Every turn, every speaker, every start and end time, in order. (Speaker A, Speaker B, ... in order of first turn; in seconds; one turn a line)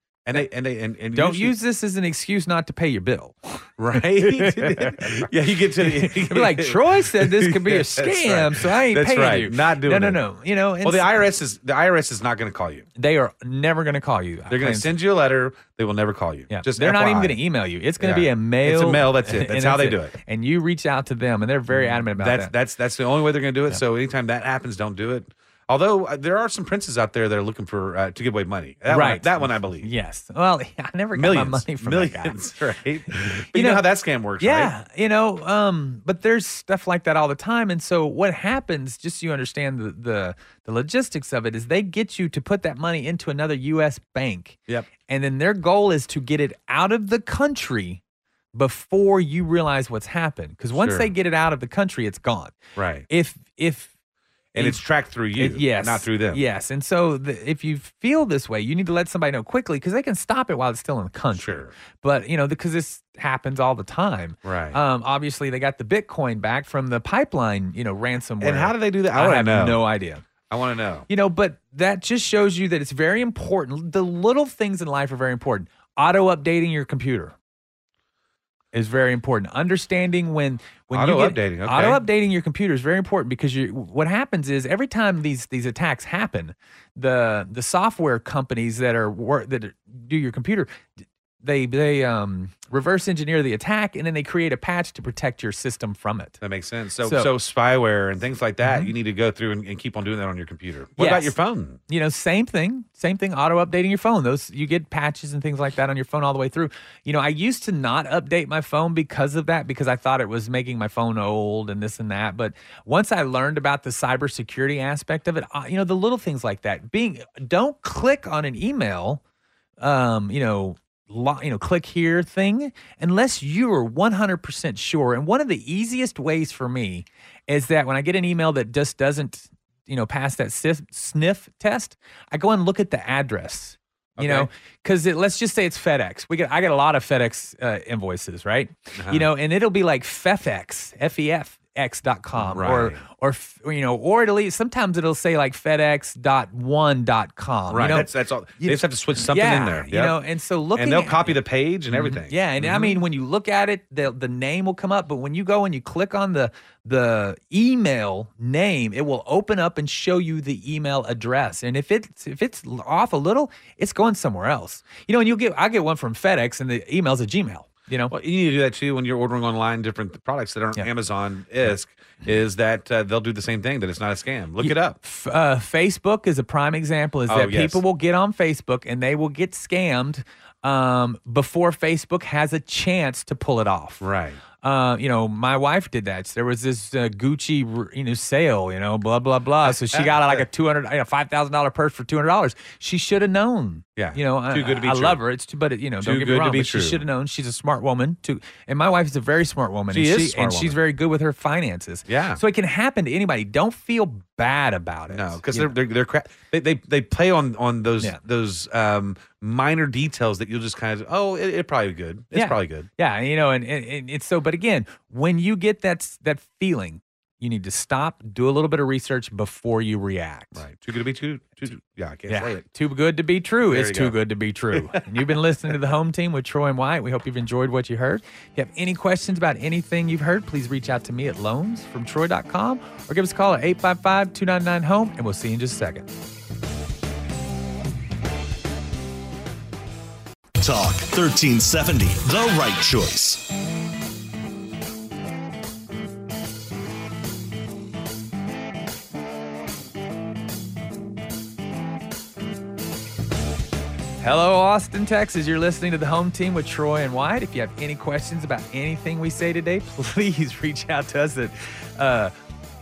Speaker A: 0.2-1.5
Speaker B: 1.1-11.1
Speaker A: 3.8-10.2
Speaker A: 10.8-12.9
Speaker B: 13.0-14.9
Speaker A: 14.5-17.4
Speaker B: 16.5-22.5
Speaker A: 18.0-20.2
Speaker A: 21.7-29.9
Speaker B: 28.9-32.5
Speaker A: 31.1-34.7
Speaker B: 33.1-33.8
Speaker B: 34.4-48.0
Speaker B: 48.5-52.5
Speaker A: 50.8-51.1
Speaker A: 52.8-53.1
Speaker B: 53.1-53.9
Speaker A: 54.5-56.4
Speaker B: 54.5-54.8
Speaker B: 55.4-70.2
Speaker A: 61.3-61.7
Speaker A: 64.4-64.8
Speaker A: 68.4-69.8
Speaker A: 70.5-71.1
Speaker B: 71.1-77.3
Speaker B: 78.7-90.8
Speaker A: 80.9-82.0
Speaker B: 91.4-96.4
Speaker A: 96.4-101.8
Speaker B: 97.0-97.3
Speaker B: 98.6-98.9
Speaker B: 101.0-101.3
Speaker B: 101.9-119.2
Speaker B: 119.8-148.1
Speaker A: 134.2-134.5
Speaker A: 139.0-139.3
Speaker A: 142.4-143.0
Speaker A: 147.7-150.2
Speaker B: 148.6-168.1
Speaker A: 150.8-153.0
Speaker A: 168.1-175.0
Speaker B: 174.6-184.1
Speaker A: 177.3-177.8
Speaker A: 184.0-184.4
Speaker B: 184.6-205.7
Speaker A: 189.6-190.4
Speaker A: 194.0-195.2
Speaker A: 196.0-197.0
Speaker A: 199.9-200.8
Speaker A: 202.1-202.4
Speaker A: 205.1-212.9
Speaker B: 212.3-220.6
Speaker A: 220.6-222.6
Speaker B: 222.3-236.1
Speaker A: 223.7-224.2
Speaker A: 224.7-225.0
Speaker C: 240.6-243.5
Speaker B: 254.2-262.3